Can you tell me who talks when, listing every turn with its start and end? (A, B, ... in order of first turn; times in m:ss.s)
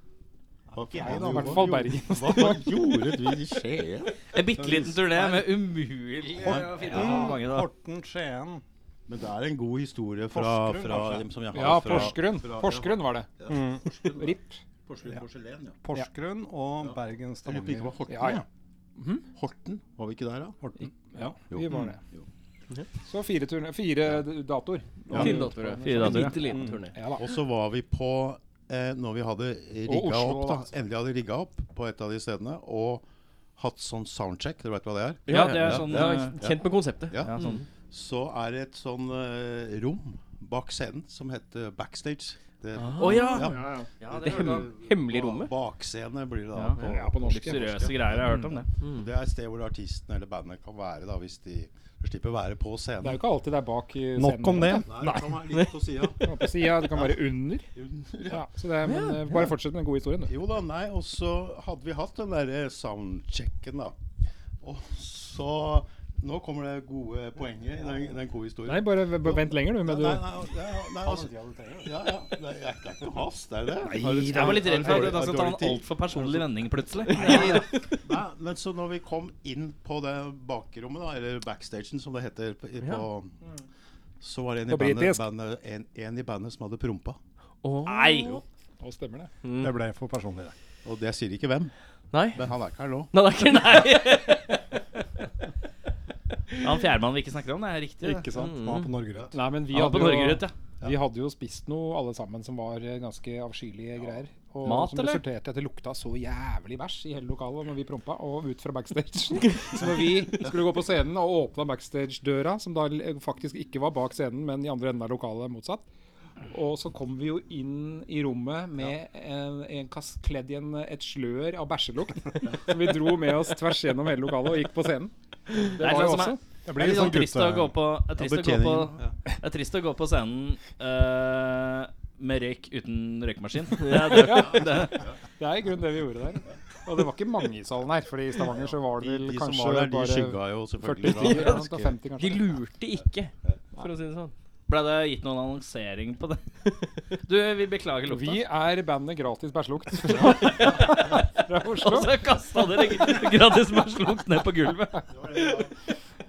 0:00.7-0:01.8 A
0:00.7-0:04.9 B
0:01.0-0:02.9 C
0:04.3-0:07.7 D
0:04.6-0:05.0 A
0:06.4-0:07.1 B
0:06.4-0:08.6 A
0:09.1-0:15.8 B
0:10.3-0:12.1 A
0:11.5-0:13.3 C
0:13.5-0:13.8 A
0:14.1-0:14.6 C
0:15.8-0:17.9 A
0:16.8-0:18.4 B
0:18.1-0:18.4 C
0:19.0-0:19.2 C
0:19.3-0:20.6 B
0:20.6-0:20.9 A
0:20.8-0:22.0 C
0:21.5-0:22.2 B
0:23.0-0:27.3 C
0:25.1-0:27.0 E
0:25.8-0:26.4 D
0:26.5-0:26.8 A
0:27.2-0:33.0 B
0:29.9-0:30.7 C
0:33.6-0:53.2 B
0:35.3-0:37.6 E
0:35.3-0:36.4 D
0:37.2-0:37.6 D
0:42.8-0:43.5 E
0:43.0-0:44.7 D
0:43.2-0:43.9 C
0:44.1-0:45.5 E
0:46.5-0:48.7 D
0:46.8-0:47.8 C
0:48.8-0:49.1 E
0:53.0-0:55.2 C
0:54.2-0:55.3 A
0:54.8-0:57.2 B
0:56.2-0:57.7 C
0:57.7-0:58.5 B
0:58.3-1:00.3 C
0:58.8-0:59.2 E
1:00.3-1:04.0 B
1:04.6-1:16.4 B
1:08.6-1:10.3 C
1:11.0-1:12.1 A
1:13.9-1:15.1 C
1:14.0-1:17.7 D
1:17.1-1:17.9 E
1:17.1-1:23.4 B
1:24.2-1:27.2 B
1:24.7-1:25.2 C
1:27.6-1:28.4 E
1:27.8-1:28.4 D
1:28.8-1:29.3 C
1:29.4-1:29.7 E
1:29.6-1:30.5 A
1:30.8-1:31.7 B
1:32.1-1:32.4 E
1:32.3-1:33.1 B
1:33.1-1:34.5 E
1:33.4-1:34.5 D
1:36.6-1:38.3 D
1:38.1-1:39.4 A
1:38.2-1:38.5 C
1:38.3-1:38.9 E
1:39.3-1:55.8 C
1:39.7-1:40.5 D
1:44.6-1:45.2 D
1:56.5-2:06.4 C
2:05.7-2:15.0 D
2:06.6-2:07.8 A
2:08.2-2:09.0 B
2:13.8-2:14.4 E
2:14.1-2:22.6 C
2:18.9-2:21.9 B
2:21.1-2:21.6 E
2:22.2-2:24.3 E
2:24.7-2:26.4 D
2:27.1-2:28.4 D
2:28.1-2:32.2 C
2:30.2-2:35.0 D
2:35.1-2:35.7 B